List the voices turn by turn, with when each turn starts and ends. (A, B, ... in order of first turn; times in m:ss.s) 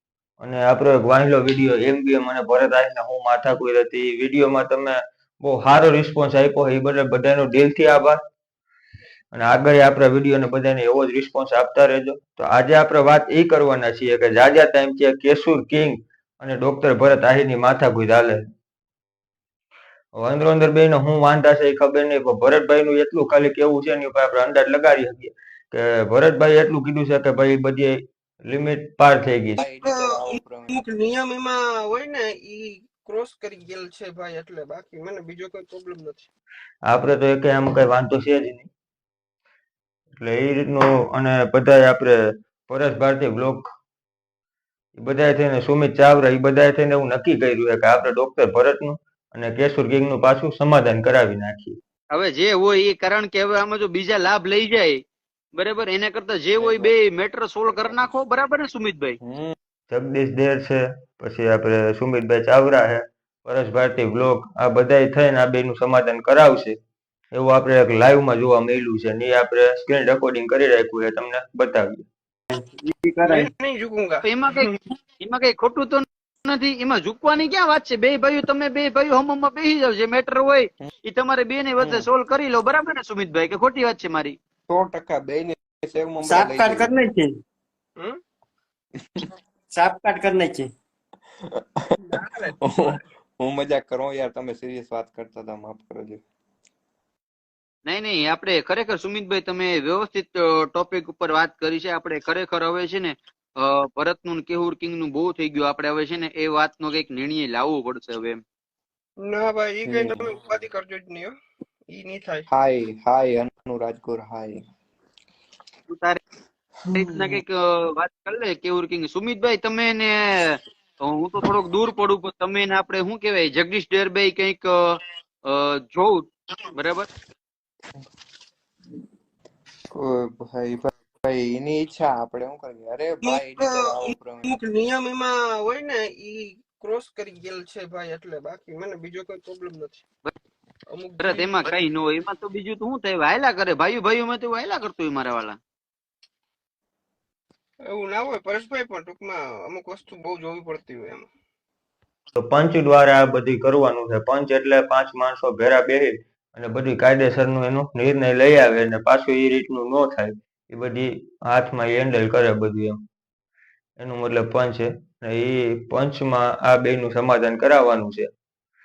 0:00.4-0:08.2 A
0:09.3-0:18.5 A
0:20.2-0:29.6 A
0:29.6-0:30.8 B
0:29.8-0:36.3 C
0:36.9-0:38.7 A
0:40.2-0:43.7 A
0:45.0-0:51.8 A
0:52.1-0:55.0 D
0:55.6-0:59.2 D
0:56.6-0:56.9 B
0:57.7-0:58.2 B
0:59.2-0:59.6 B
0:59.9-1:06.8 A
1:07.3-1:12.0 A
1:12.5-1:13.5 E
1:13.3-1:14.8 C
1:14.2-1:24.4 D
1:21.8-1:22.1 B
1:24.7-1:26.9 B
1:26.2-1:27.3 E
1:29.7-1:30.7 E
1:31.5-1:31.8 B
1:32.0-1:33.0 C
1:32.6-1:36.2 B
1:37.9-1:48.4 D
1:49.2-1:51.3 C
1:49.8-1:50.3 B
1:51.9-1:52.5 C
1:52.5-1:54.6 B
1:55.9-1:56.2 D
1:56.9-1:57.4 B
1:56.9-2:07.1 D
2:09.9-2:14.5 B
2:13.2-2:20.0 C
2:20.9-2:21.7 C
2:21.2-2:25.6 D
2:27.9-2:31.3 C
2:32.4-2:43.0 A
2:44.0-2:48.3 A